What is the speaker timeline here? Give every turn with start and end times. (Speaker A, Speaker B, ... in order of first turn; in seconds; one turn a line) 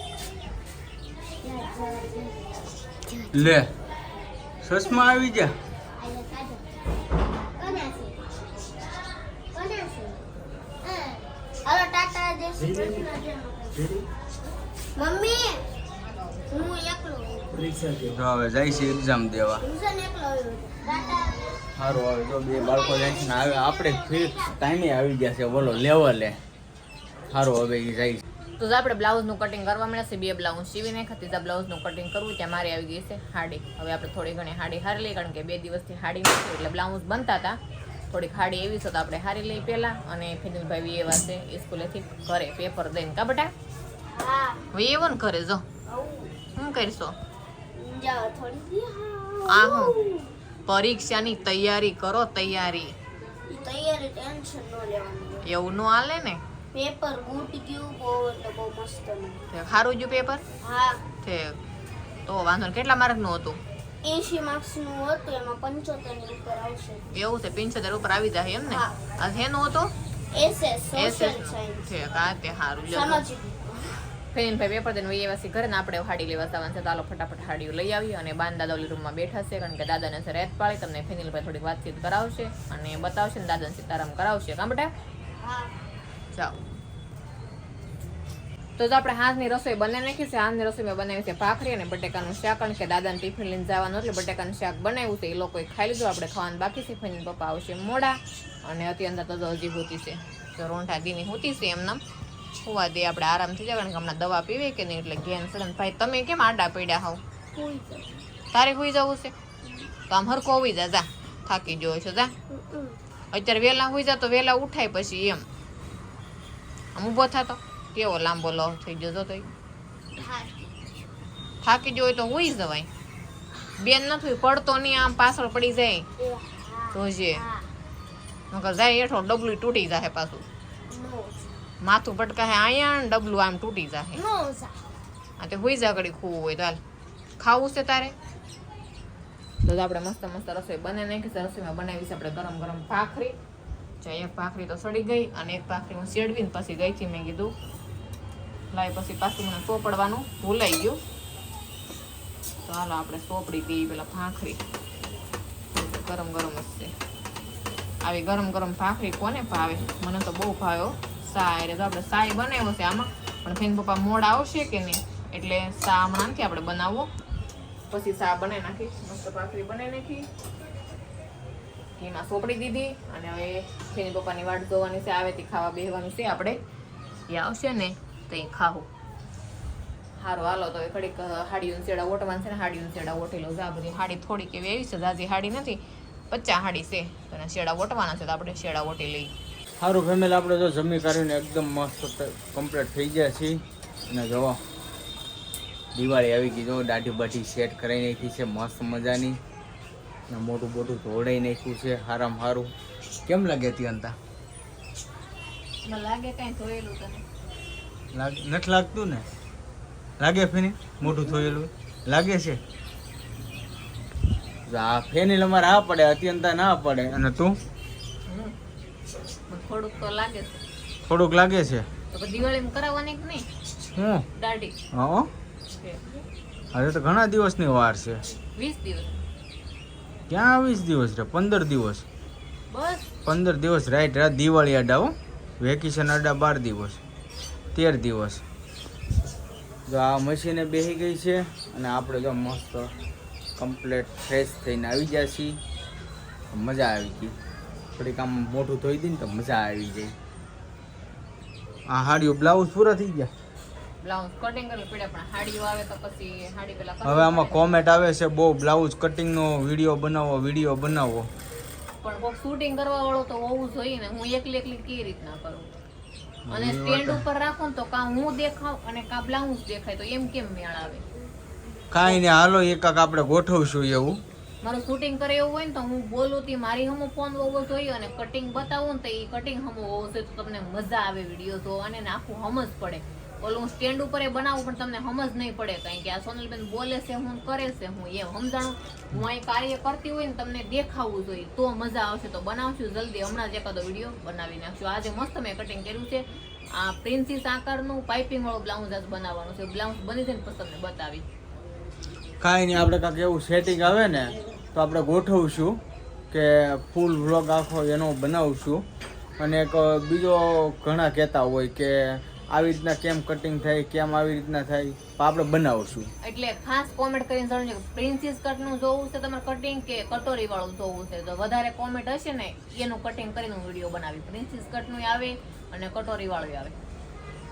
Speaker A: 1.4-2.4
Speaker A: 3.1-3.5
Speaker B: 3.3-3.7
Speaker B: 4.6-5.5
Speaker A: 6.0-6.6
Speaker A: 7.4-8.2
Speaker A: 9.5-10.2
Speaker A: 10.8-14.0
Speaker A: 14.9-15.6
Speaker A: 16.5-17.6
Speaker B: 17.9-19.6
Speaker A: 19.6-21.6
Speaker B: 21.8-26.4
Speaker A: 22.5-24.6
Speaker B: 27.3-28.2
Speaker C: 28.6-37.6
Speaker C: 38.1-43.5
Speaker A: 44.1-44.6
Speaker C: 44.7-45.6
Speaker A: 45.9-46.3
Speaker C: 46.5-47.1
Speaker A: 47.7-50.3
Speaker C: 49.5-50.0
Speaker C: 50.6-52.9
Speaker A: 53.5-55.4
Speaker C: 55.4-56.4
Speaker A: 56.7-59.5
Speaker C: 59.5-60.4
Speaker A: 60.6-61.0
Speaker C: 61.2-61.6
Speaker C: 62.2-63.6
Speaker A: 64.0-67.1
Speaker C: 67.1-69.9
Speaker A: 68.7-69.0
Speaker A: 70.3-72.1
Speaker C: 70.9-73.2
Speaker A: 72.9-74.0
Speaker C: 74.3-84.9
Speaker A: 85.4-85.7
Speaker C: 88.8-102.0
Speaker C: 102.6-107.2
Speaker A: 107.5-108.2
Speaker C: 108.5-109.3
Speaker C: 110.1-112.3
Speaker A: 112.5-113.0
Speaker C: 113.3-115.5
Speaker C: 116.9-119.5
Speaker A: 120.2-120.9
Speaker C: 121.6-122.9
Speaker C: 123.8-126.0
Speaker A: 126.2-127.7
Speaker C: 126.9-127.4
Speaker C: 128.5-130.4
Speaker A: 130.9-131.6
Speaker C: 131.8-134.2
Speaker A: 134.1-134.9
Speaker C: 135.4-136.8
Speaker C: 137.4-138.1
Speaker C: 139.6-143.3
Speaker C: 144.0-147.5
Speaker C: 148.7-151.0
Speaker C: 152.6-154.6
Speaker C: 155.7-156.9
Speaker C: 158.0-167.1
Speaker C: 167.9-170.2
Speaker C: 172.0-176.6
Speaker C: 177.3-178.9
Speaker C: 180.2-185.8
Speaker C: 186.3-189.3
Speaker B: 189.8-193.6
Speaker B: 194.1-194.6
Speaker B: 195.9-199.4
Speaker B: 200.3-202.7
Speaker B: 203.2-204.1
Speaker C: 205.8-207.2
Speaker B: 208.1-209.2
Speaker B: 210.2-212.6
Speaker B: 214.7-217.5
Speaker C: 218.3-218.5
Speaker C: 219.5-220.6
Speaker B: 221.1-221.9
Speaker C: 222.1-223.5
Speaker B: 223.9-224.2
Speaker C: 224.3-224.8
Speaker B: 224.9-225.3
Speaker C: 225.8-226.2
Speaker B: 226.7-228.2
Speaker C: 228.6-229.2
Speaker B: 230.3-232.1
Speaker C: 232.7-233.1
Speaker B: 233.2-237.0
Speaker B: 237.7-238.4
Speaker B: 239.8-242.9
Speaker B: 243.6-245.6
Speaker B: 246.5-247.3
Speaker B: 247.9-250.1
Speaker B: 251.9-253.3
Speaker C: 254.0-257.6
Speaker B: 257.0-261.3
Speaker C: 262.0-265.7
Speaker B: 266.4-267.2
Speaker C: 266.5-271.1
Speaker B: 271.9-274.2
Speaker C: 274.6-301.2
Speaker B: 302.4-305.8
Speaker B: 306.3-308.8
Speaker B: 309.4-316.1
Speaker C: 316.2-326.8